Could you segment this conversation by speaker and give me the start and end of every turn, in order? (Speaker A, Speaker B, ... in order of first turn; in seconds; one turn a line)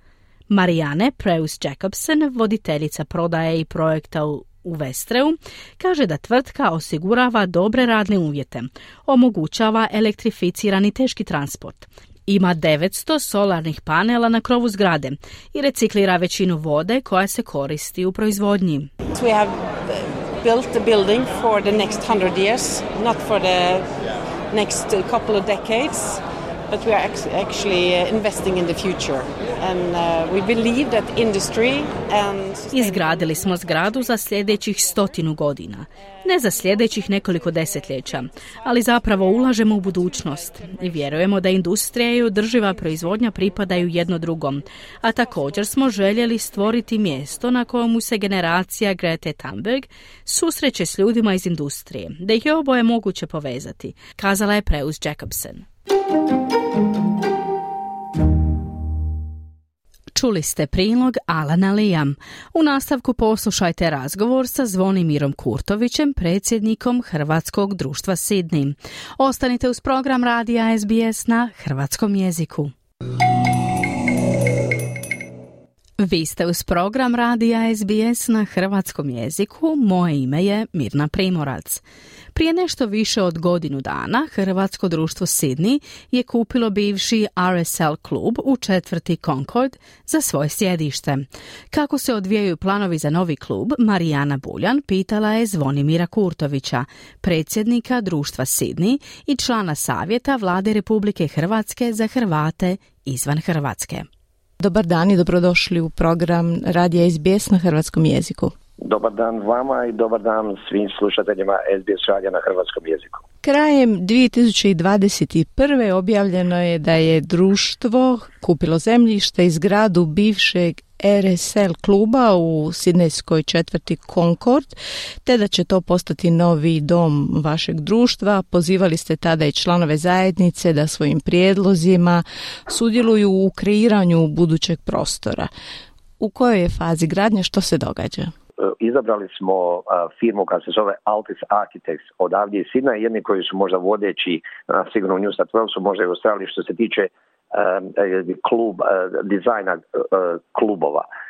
Speaker A: 0.5-18.9
Speaker B: 19.1-23.9
Speaker B: 24.5-33.2
Speaker A: 32.7-55.6
Speaker A: 60.1-72.7
Speaker A: 76.0-81.8
Speaker A: 82.3-104.1
Speaker C: 104.6-108.5
Speaker D: 108.8-113.2
Speaker C: 113.4-135.5
Speaker C: 136.2-138.3
Speaker D: 138.6-151.0